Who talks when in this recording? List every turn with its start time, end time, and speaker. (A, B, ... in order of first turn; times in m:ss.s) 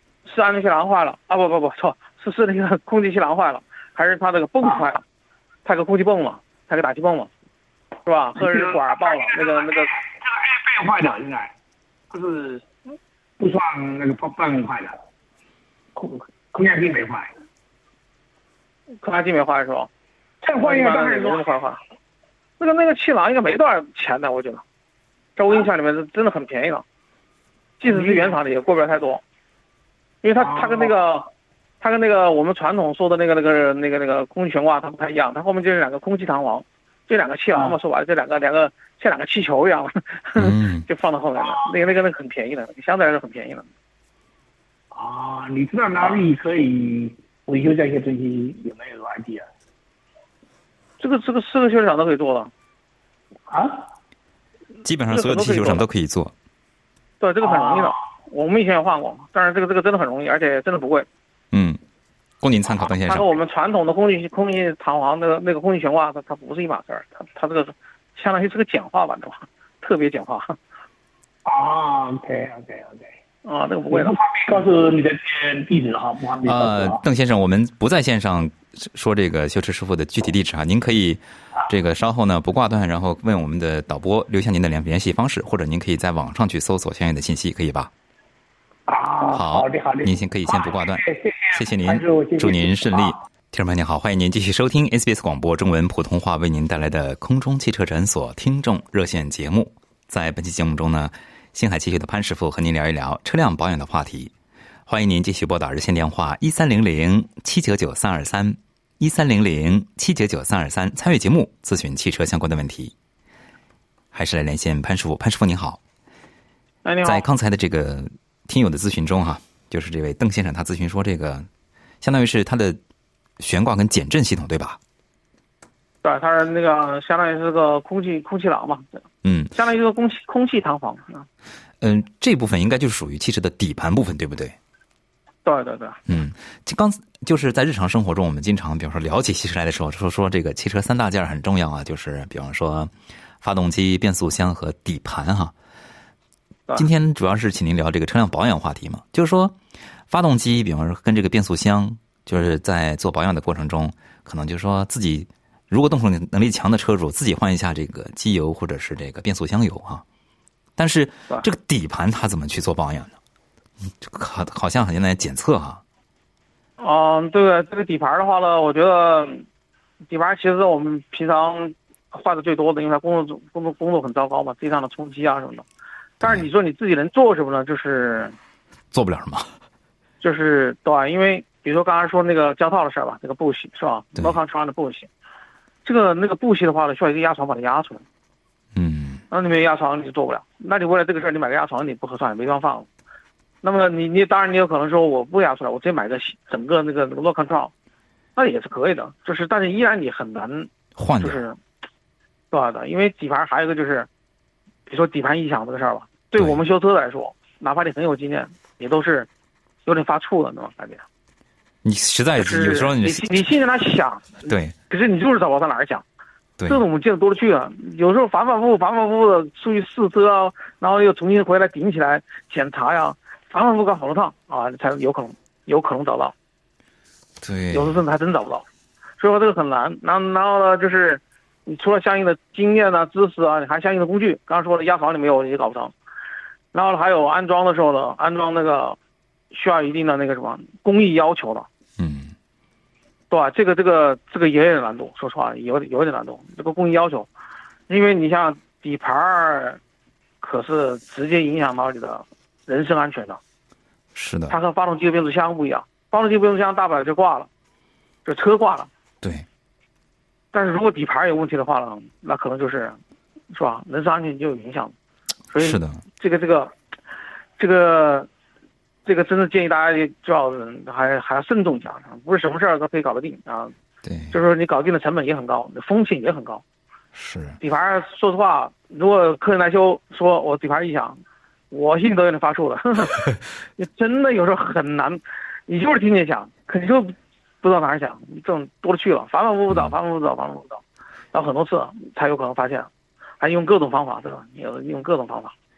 0:00.2-0:05.0 A
0:05.6-0:07.3 A
0:08.0-0:10.0 A
0:08.4-0:11.5 B
0:12.1-0:12.7 B
0:13.4-0:15.0 B
0:16.0-0:17.3 B
0:19.0-0:19.9 A
0:20.4-0:21.5 B
0:20.6-0:21.8 A
0:22.6-0:24.6 A
0:25.4-0:26.8 A
0:27.8-0:29.2 A
0:27.8-0:28.4 B
0:30.2-0:31.3 A
0:30.4-0:30.9 B
0:31.8-0:43.6 A
0:40.4-0:40.9 C
0:41.4-0:41.7 B
0:44.9-0:49.5 B
0:51.0-0:52.5 A
0:53.5-0:53.9 B
0:54.8-0:56.3 C
0:55.1-0:55.8 A
0:57.2-1:01.1 A
0:57.4-0:58.0 B
1:01.5-1:01.8 C
1:02.4-1:03.3 C
1:02.8-1:10.6 A
1:11.4-1:13.1 B
1:13.4-1:14.2 A
1:13.9-1:17.0 B
1:16.5-1:27.9 C
1:28.9-1:33.2 B
1:29.3-1:31.0 C
1:31.5-1:44.3 C
1:44.9-1:52.9 C
1:54.1-1:55.8 C
1:56.8-1:57.2 A
1:57.0-2:01.5 C
2:02.0-2:02.8 C
2:03.4-2:04.8 C
2:06.0-2:08.9 A
2:09.2-2:09.5 C
2:09.5-2:11.3 A
2:11.8-2:14.6 C
2:15.4-2:16.0 A
2:16.1-2:25.5 C
2:26.8-2:29.6 C
2:30.1-2:40.0 C
2:40.8-2:43.2 C
2:43.9-2:45.8 C
2:46.8-2:49.4 A
2:50.1-2:55.6 A
2:56.2-2:58.4 A
2:58.9-2:59.5 C
3:00.2-3:05.1 A
3:05.8-3:08.0 A
3:08.8-3:09.2 C
3:09.3-3:12.9 A
3:13.6-3:17.7 A
3:18.4-3:21.6 A
3:21.0-3:21.4 C
3:22.5-3:24.1 A
3:24.9-3:29.3 A
3:29.9-3:31.0 A
3:31.8-3:33.4 C
3:32.4-3:36.0 A
3:34.5-3:34.7 C
3:36.7-3:46.3 A
3:47.4-3:48.0 C
3:47.7-3:48.6 A
3:49.2-3:55.9 A
3:56.7-3:59.0 A
3:59.5-4:01.7 A
4:02.0-4:02.3 C
4:03.3-4:07.3 A
4:07.9-4:09.8 A
4:10.4-4:13.4 A
4:14.2-4:14.6 C
4:14.5-4:17.5 A
4:18.2-4:18.9 A
4:20.5-4:23.0 A
4:23.5-4:24.9 A
4:25.5-4:26.7 A
4:25.6-4:26.0 C
4:27.6-4:28.3 A
4:29.0-4:33.7 A
4:34.0-4:34.4 C
4:34.3-4:36.6 A
4:37.2-4:37.6 C
4:37.6-4:41.2 A
4:41.7-4:43.2 A
4:43.8-4:50.8 A
4:51.3-4:52.9 A
4:53.4-4:55.5 A